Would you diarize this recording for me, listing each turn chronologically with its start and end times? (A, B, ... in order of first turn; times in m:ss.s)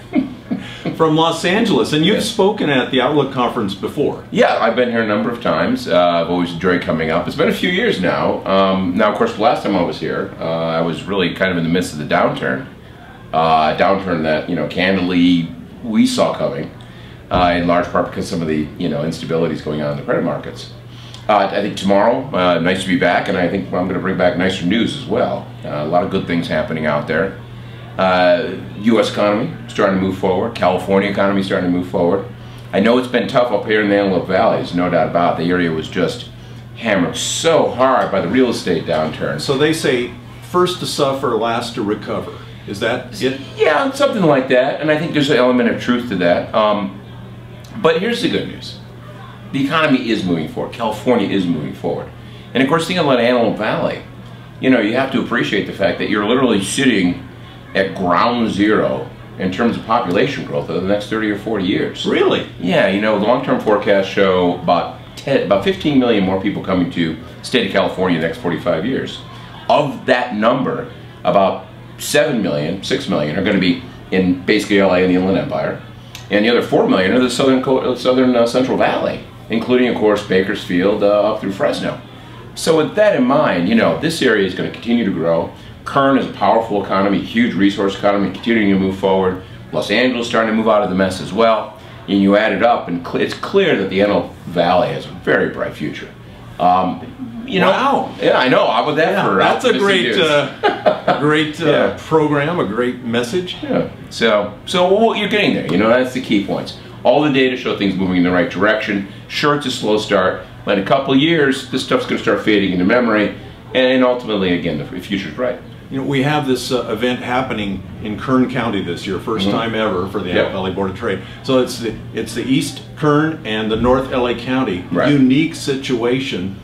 0:00.9-0:04.2 A
0:04.3-0:12.7 B
0:13.3-0:16.7 B
0:17.3-0:20.7 B
0:21.3-0:27.3 B
0:28.0-0:39.4 B
0:39.4-0:43.4 A
0:43.2-0:46.9 B
0:47.8-0:48.8 B
0:49.5-0:54.0 B
0:54.6-0:57.2 B
0:57.7-1:02.1 B
1:02.0-1:02.5 A
1:02.6-1:15.8 B
1:16.3-1:22.0 B
1:22.5-1:41.9 B
1:37.5-1:38.1 A
1:39.0-1:43.6 A
1:43.6-1:55.6 B
1:55.9-2:06.5 A
1:59.4-1:59.6 B